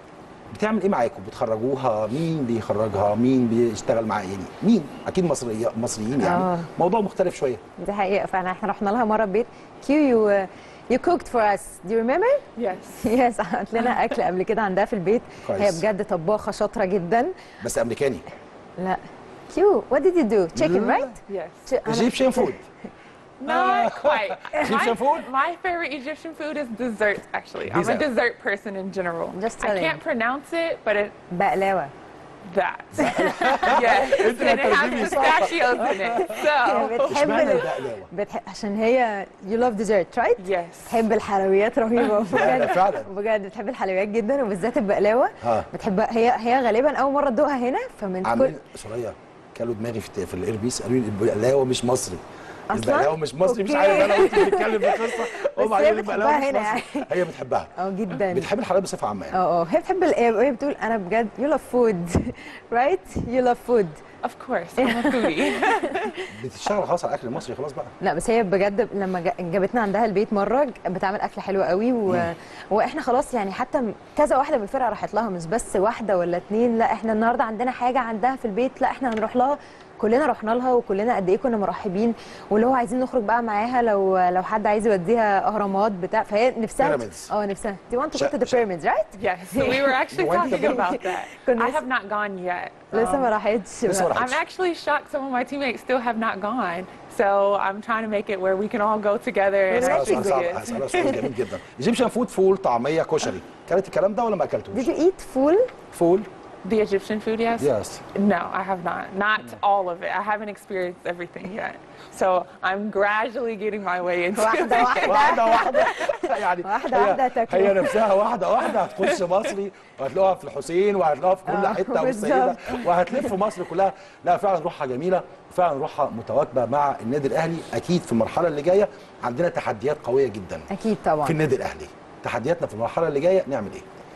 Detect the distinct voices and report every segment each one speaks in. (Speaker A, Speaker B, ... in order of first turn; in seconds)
Speaker A: 0.5-7.6, 15.4-15.8, 17.6-18.2, 20.5-21.1, 21.8-22.6, 23.4-25.3, 27.7-28.1, 32.9-36.3, 37.1-38.1, 42.2-43.1, 45.4-45.7, 48.2-57.7, 58.3-59.4, 66.3-67.9, 86.8-87.3, 88.1-88.6, 90.1-91.0, 93.9-94.4, 99.8-104.9, 105.9-106.3, 107.6-108.0, 114.7-130.7, 131.2-133.8
Speaker B: 6.2-6.7, 7.8-12.4, 13.0-17.4, 19.5-22.5, 29.3-30.0, 31.3-31.9, 33.0-34.6, 36.2-48.5, 52.7-57.1, 57.8-58.5, 59.3-64.0, 64.8-66.3, 68.0-91.8, 92.9-94.1, 99.7-101.3, 104.7-105.7, 114.3-118.0, 121.5-123.3, 130.7-131.3
Speaker C: 12.6-13.1, 21.3-21.7, 23.4-31.2, 32.5-37.6, 40.4-41.0, 64.2-66.1, 89.2-93.3, 94.1-101.2, 106.6-115.7